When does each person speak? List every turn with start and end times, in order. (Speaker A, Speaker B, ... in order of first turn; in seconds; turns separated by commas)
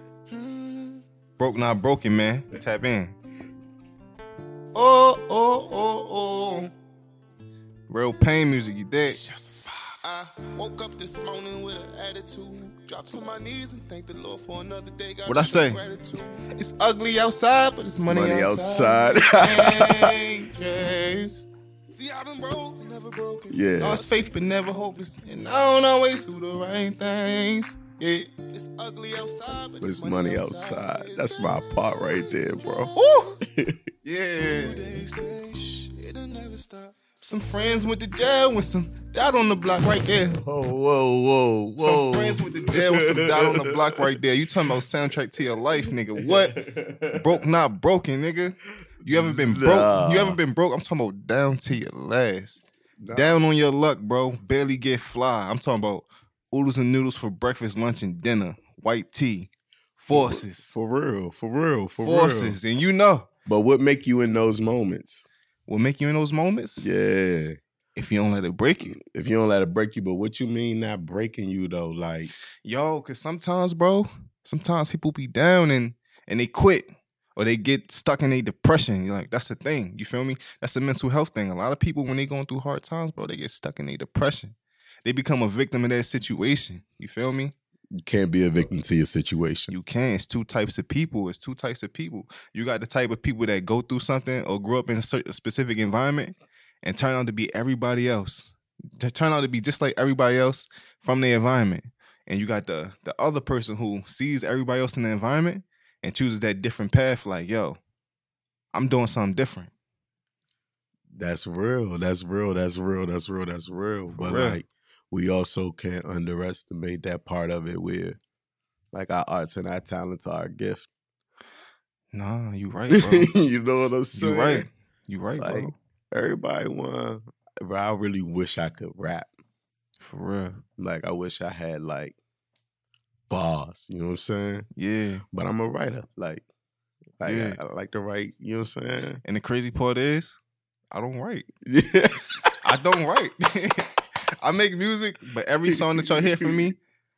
Speaker A: 0.3-1.0, Speaker B: 1.4-3.1, Speaker A: 4.7-6.7, Speaker B: 7.9-9.2, Speaker A: 9.1-27.0, Speaker B: 15.2-15.8, Speaker B: 17.1-18.2, Speaker C: 18.1-20.1, Speaker C: 23.5-24.1, Speaker B: 23.8-28.0, Speaker A: 28.0-33.5, Speaker C: 29.8-32.9, Speaker B: 32.9-33.3, Speaker B: 34.0-35.0, Speaker A: 34.4-40.2, Speaker B: 37.2-40.4, Speaker C: 40.4-44.0, Speaker B: 41.8-46.5, Speaker C: 46.2-47.4, Speaker B: 47.1-60.7, Speaker C: 49.0-50.4, Speaker C: 53.0-53.3, Speaker C: 60.1-62.6, Speaker B: 62.0-63.3, Speaker C: 63.5-65.2, Speaker B: 65.7-66.9, Speaker C: 66.8-67.6, Speaker B: 68.0-69.0, Speaker C: 68.8-72.3, Speaker B: 72.6-87.5, Speaker C: 88.0-89.7, Speaker B: 89.7-107.8, Speaker B: 108.7-109.7, Speaker C: 111.1-118.2, Speaker B: 114.1-114.6, Speaker C: 118.9-120.9, Speaker B: 122.1-123.3, Speaker C: 122.9-124.7, Speaker B: 124.1-125.7, Speaker C: 125.4-129.3, Speaker B: 130.0-130.6, Speaker C: 130.8-132.2, Speaker C: 133.3-134.7, Speaker B: 134.7-135.2, Speaker C: 135.3-136.4, Speaker C: 137.2-139.2, Speaker B: 137.2-137.6, Speaker B: 139.2-140.4, Speaker B: 140.9-141.5, Speaker C: 141.7-142.4, Speaker B: 142.6-146.8, Speaker C: 146.0-146.5